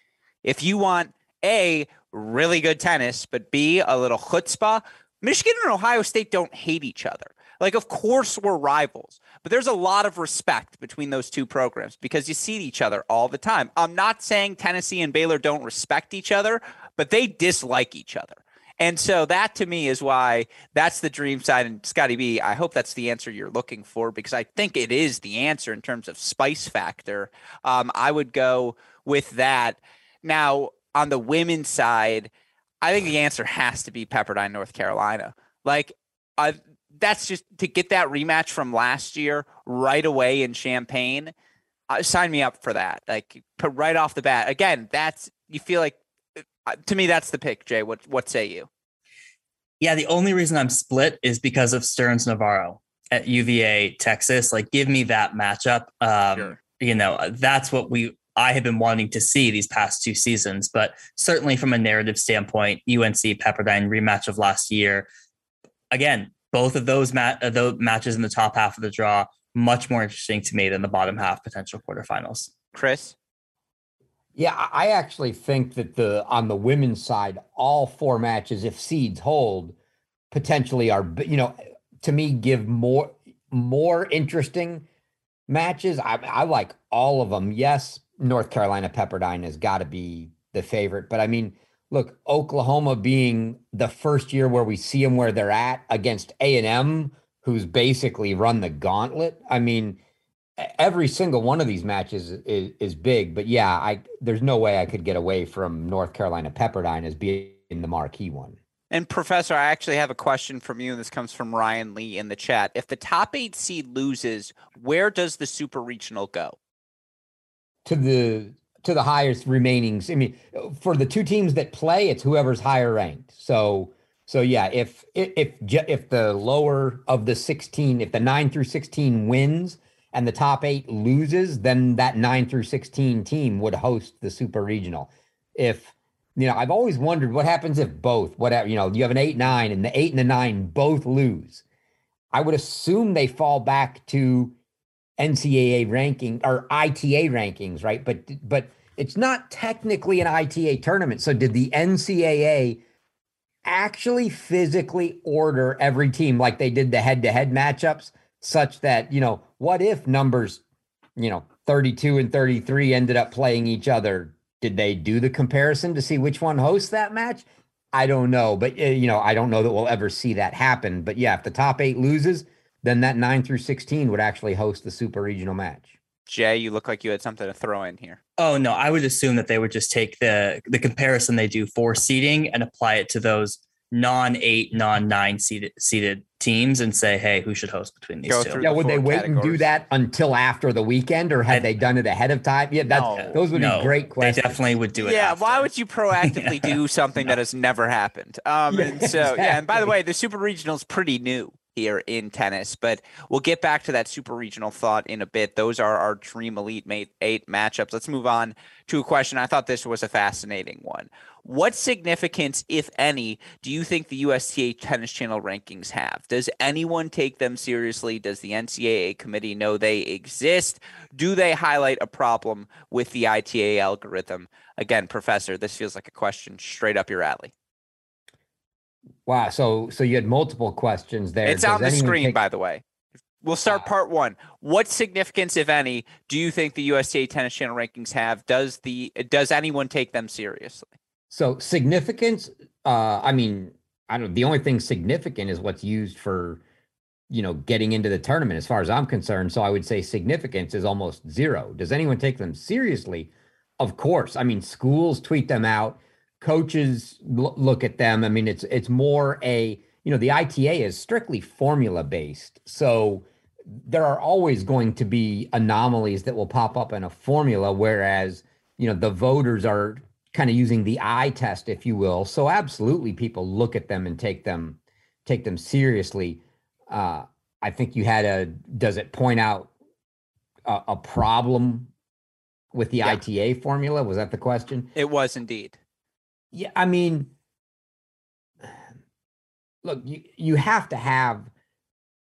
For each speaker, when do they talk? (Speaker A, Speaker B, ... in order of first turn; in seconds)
Speaker A: 0.4-32.3, 32.8-41.3, 41.9-48.7, 72.7-73.1, 108.9-116.6, 176.3-178.2, 188.3-189.7, 192.9-193.3, 195.0-227.5, 231.4-232.8, 233.4-240.9, 284.9-285.8
Speaker B: 49.8-65.1, 65.9-72.5, 178.4-188.6, 193.1-195.7, 196.3-196.7
Speaker C: 74.3-79.7, 80.3-84.8, 85.5-100.0, 100.6-108.6, 117.8-141.6, 142.3-144.6, 145.2-152.8, 153.6-160.6, 161.2-175.9, 188.6-194.6, 198.7-199.6, 229.2-232.4, 241.3-246.6, 247.3-279.7, 280.6-281.9, 282.7-284.9, 286.5-287.3, 289.8-291.5